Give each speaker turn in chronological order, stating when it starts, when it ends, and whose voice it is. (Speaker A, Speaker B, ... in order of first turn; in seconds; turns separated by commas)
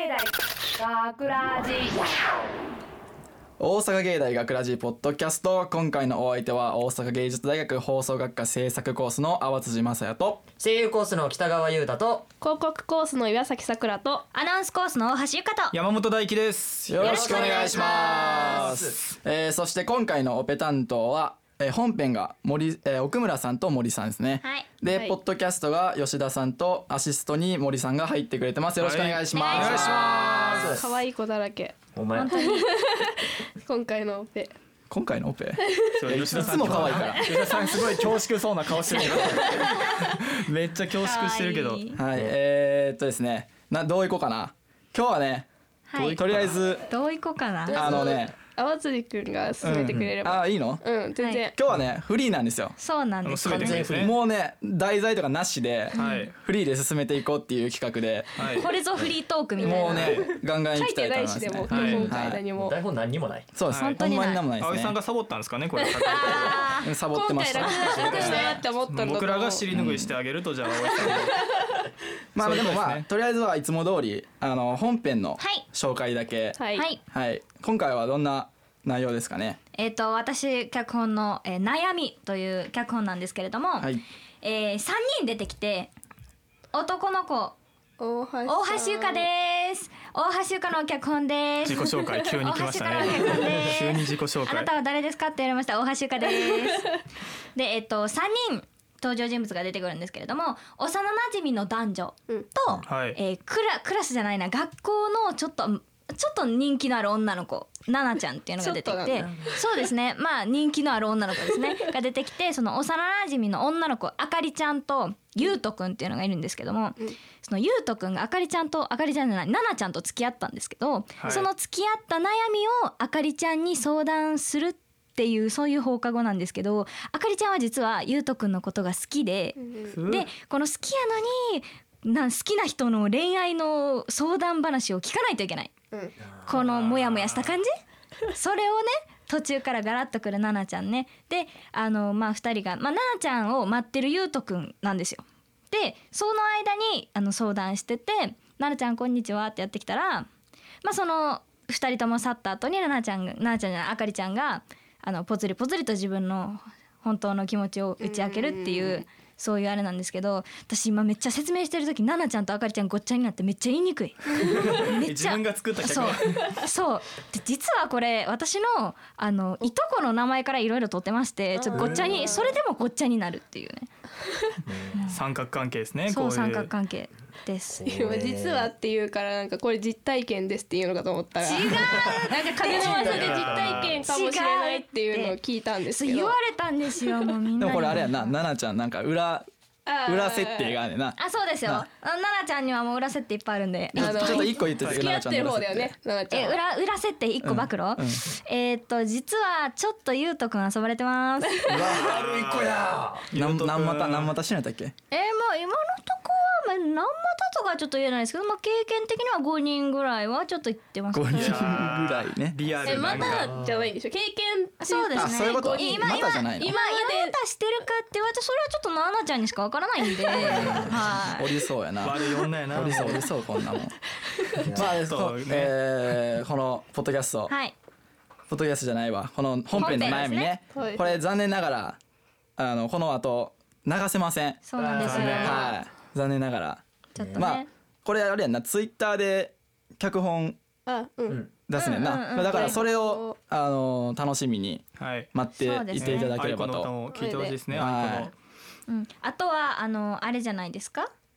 Speaker A: 0.8-1.9, Speaker B: 3.6-10.4, Speaker C: 10.6-12.3, Speaker A: 12.4-14.2, Speaker D: 14.3-15.7, Speaker E: 15.7-17.1, Speaker B: 16.9-30.6, Speaker C: 17.0-19.0, Speaker D: 17.0-18.7, Speaker D: 24.4-24.7, Speaker A: 24.9-25.2, Speaker E: 28.8-30.8, Speaker D: 29.3-30.7, Speaker A: 30.2-31.8, Speaker C: 30.3-30.9, Speaker C: 31.9-32.4, Speaker D: 32.1-32.7, Speaker A: 32.4-34.5, Speaker B: 34.9-37.3, Speaker A: 35.6-36.0, Speaker E: 35.9-41.8, Speaker D: 36.5-37.2, Speaker A: 37.1-38.0, Speaker B: 38.9-39.3, Speaker A: 39.2-39.8, Speaker D: 39.3-39.8, Speaker D: 41.0-42.0, Speaker B: 42.0-45.5, Speaker D: 45.9-46.2, Speaker E: 46.0-46.6, Speaker B: 46.1-46.9, Speaker D: 46.9-47.9, Speaker A: 47.7-51.6, Speaker B: 47.7-48.4, Speaker B: 49.6-50.8, Speaker B: 51.5-52.8, Speaker D: 52.8-53.9, Speaker E: 53.2-54.1, Speaker C: 53.5-54.1, Speaker B: 53.7-58.5, Speaker D: 55.9-56.3, Speaker E: 55.9-56.3, Speaker E: 58.4-58.7, Speaker D: 58.5-60.2, Speaker A: 59.6-62.7, Speaker B: 59.6-62.4, Speaker E: 59.9-60.2, Speaker E: 61.7-62.1, Speaker C: 62.5-63.5, Speaker B: 63.5-65.0, Speaker E: 63.7-64.0, Speaker D: 63.8-64.4, Speaker E: 64.6-66.7, Speaker A: 65.8-69.8, Speaker D: 66.1-66.9, Speaker B: 66.8-68.6, Speaker E: 67.6-71.4, Speaker D: 68.1-68.6, Speaker B: 69.7-70.1, Speaker A: 70.9-71.8, Speaker B: 72.3-79.6, Speaker E: 72.4-73.0, Speaker D: 75.4-75.6, Speaker A: 76.5-76.9, Speaker D: 76.7-77.0, Speaker D: 79.7-83.9, Speaker D: 84.4-85.9, Speaker D: 86.7-87.6, Speaker A: 88.0-89.3, Speaker D: 88.5-96.9, Speaker E: 91.6-94.7, Speaker A: 96.3-96.8, Speaker D: 97.5-135.7, Speaker E: 102.9-103.2, Speaker A: 108.6-109.8, Speaker E: 121.2-121.5, Speaker A: 129.6-130.0, Speaker E: 129.9-130.3, Speaker D: 136.4-137.7, Speaker E: 136.5-137.6, Speaker D: 138.3-150.3, Speaker D: 150.8-173.9, Speaker A: 158.0-159.0, Speaker E: 164.8-166.4, Speaker A: 171.5-172.6, Speaker C: 174.7-175.0, Speaker D: 174.9-175.2, Speaker E: 175.1-176.7, Speaker D: 176.1-177.8, Speaker C: 177.8-178.7, Speaker A: 177.8-186.4, Speaker D: 181.4-188.3, Speaker E: 182.8-184.1, Speaker B: 187.6-189.5, Speaker A: 189.8-190.8, Speaker B: 190.0-191.8, Speaker D: 191.2-194.6, Speaker B: 193.9-195.9, Speaker A: 193.9-196.6, Speaker E: 194.8-195.1, Speaker D: 196.3-201.7, Speaker B: 197.4-198.2, Speaker C: 201.7-203.3, Speaker E: 201.7-202.8, Speaker E: 203.3-204.3, Speaker B: 203.3-204.9, Speaker D: 205.1-211.9, Speaker B: 211.1-212.7, Speaker E: 211.3-213.5, Speaker A: 212.8-217.3, Speaker C: 213.1-213.9, Speaker D: 214.8-221.5, Speaker B: 215.2-216.7, Speaker A: 220.1-220.9, Speaker B: 220.4-222.2, Speaker E: 222.0-223.3, Speaker B: 222.7-224.0, Speaker A: 224.3-224.8, Speaker C: 224.7-224.9, Speaker B: 224.7-227.5, Speaker E: 224.9-226.2, Speaker D: 227.5-227.7, Speaker B: 228.5-232.0, Speaker D: 229.7-230.5, Speaker A: 230.7-231.2, Speaker B: 232.6-236.8, Speaker D: 234.6-235.8, Speaker C: 234.8-235.6, Speaker E: 234.9-235.6, Speaker D: 237.1-237.7, Speaker C: 237.2-237.6, Speaker B: 237.3-240.6, Speaker A: 240.8-241.4, Speaker B: 241.7-247.0, Speaker D: 241.8-242.8, Speaker A: 242.4-243.4, Speaker E: 245.0-245.3, Speaker D: 245.6-246.4, Speaker E: 246.0-248.3, Speaker A: 247.1-247.7, Speaker B: 247.7-248.3, Speaker D: 248.9-251.1